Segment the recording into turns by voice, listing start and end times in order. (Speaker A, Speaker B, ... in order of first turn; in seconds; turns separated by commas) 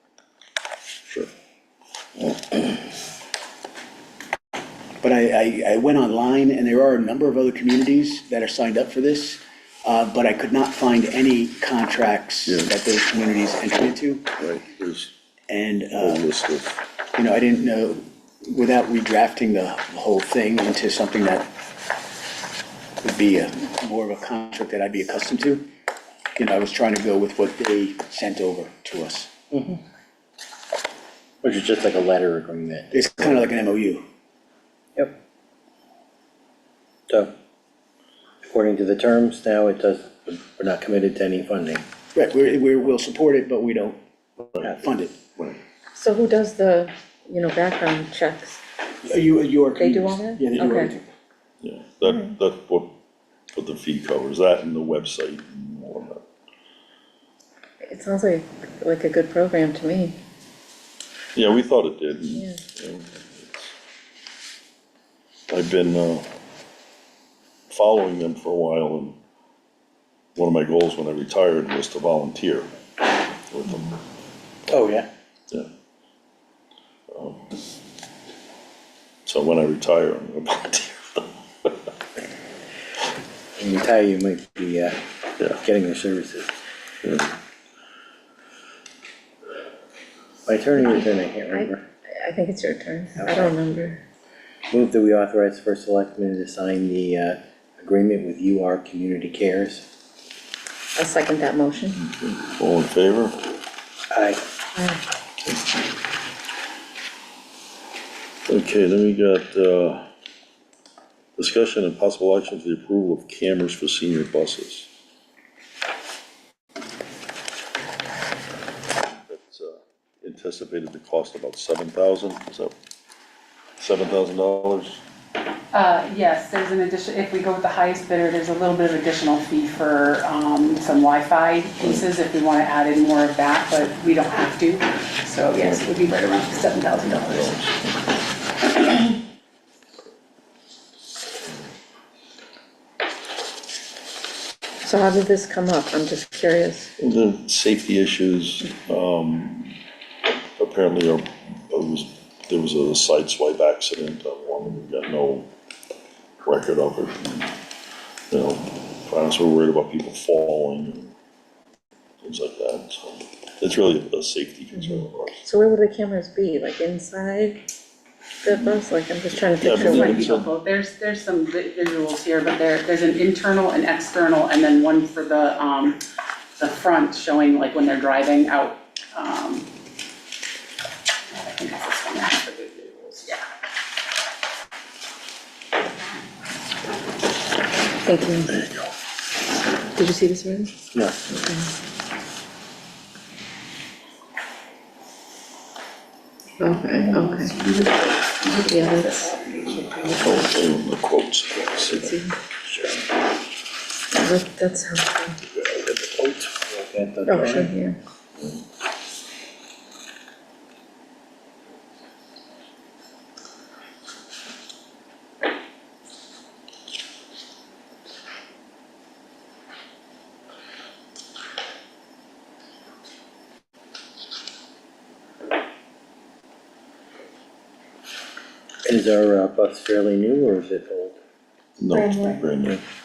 Speaker A: 2.2-2.6, Speaker B: 5.0-14.3, Speaker A: 12.5-12.7, Speaker A: 14.4-15.1, Speaker B: 15.5-16.3, Speaker A: 15.9-16.8, Speaker B: 17.1-21.5, Speaker B: 23.0-25.7, Speaker B: 26.4-29.3, Speaker C: 29.5-29.8, Speaker C: 31.4-33.0, Speaker B: 32.9-34.0, Speaker C: 38.5-41.9, Speaker B: 42.1-44.0, Speaker B: 44.6-45.2, Speaker D: 46.0-48.6, Speaker B: 49.0-51.1, Speaker D: 49.8-50.9, Speaker A: 51.6-52.9, Speaker D: 52.0-52.4, Speaker A: 53.5-56.2, Speaker D: 57.8-60.2, Speaker A: 61.4-63.8, Speaker D: 62.4-62.6, Speaker A: 65.5-66.3, Speaker A: 67.7-69.2, Speaker A: 70.3-72.7, Speaker A: 73.5-74.0, Speaker C: 74.7-75.1, Speaker A: 77.1-77.4, Speaker A: 79.3-81.8, Speaker C: 83.6-85.0, Speaker C: 85.6-86.5, Speaker A: 87.0-87.3, Speaker C: 90.5-91.8, Speaker D: 90.8-94.0, Speaker C: 93.2-93.5, Speaker C: 94.7-99.8, Speaker D: 101.0-102.0, Speaker A: 102.2-103.4, Speaker D: 104.8-105.0, Speaker A: 108.5-110.1, Speaker A: 111.4-114.9, Speaker A: 119.1-122.7, Speaker A: 123.8-125.0, Speaker E: 125.7-137.6, Speaker A: 135.5-135.9, Speaker A: 137.1-138.1, Speaker D: 144.8-146.9, Speaker A: 147.0-149.8, Speaker A: 150.6-155.5, Speaker A: 156.4-157.5, Speaker A: 158.3-161.1, Speaker A: 162.2-165.4, Speaker D: 164.8-167.7, Speaker D: 168.4-170.4, Speaker A: 169.4-170.5, Speaker E: 169.7-176.0, Speaker E: 176.6-179.7, Speaker E: 181.3-183.4, Speaker D: 188.0-188.7, Speaker D: 189.9-190.7, Speaker D: 191.3-191.7, Speaker D: 196.6-197.5, Speaker E: 196.9-200.4, Speaker D: 198.7-199.3, Speaker A: 200.2-202.1, Speaker D: 201.9-202.4, Speaker C: 202.7-203.0, Speaker D: 204.1-205.4, Speaker A: 205.5-205.8, Speaker C: 206.2-207.7, Speaker D: 207.3-208.0, Speaker C: 228.9-231.2, Speaker A: 231.8-232.8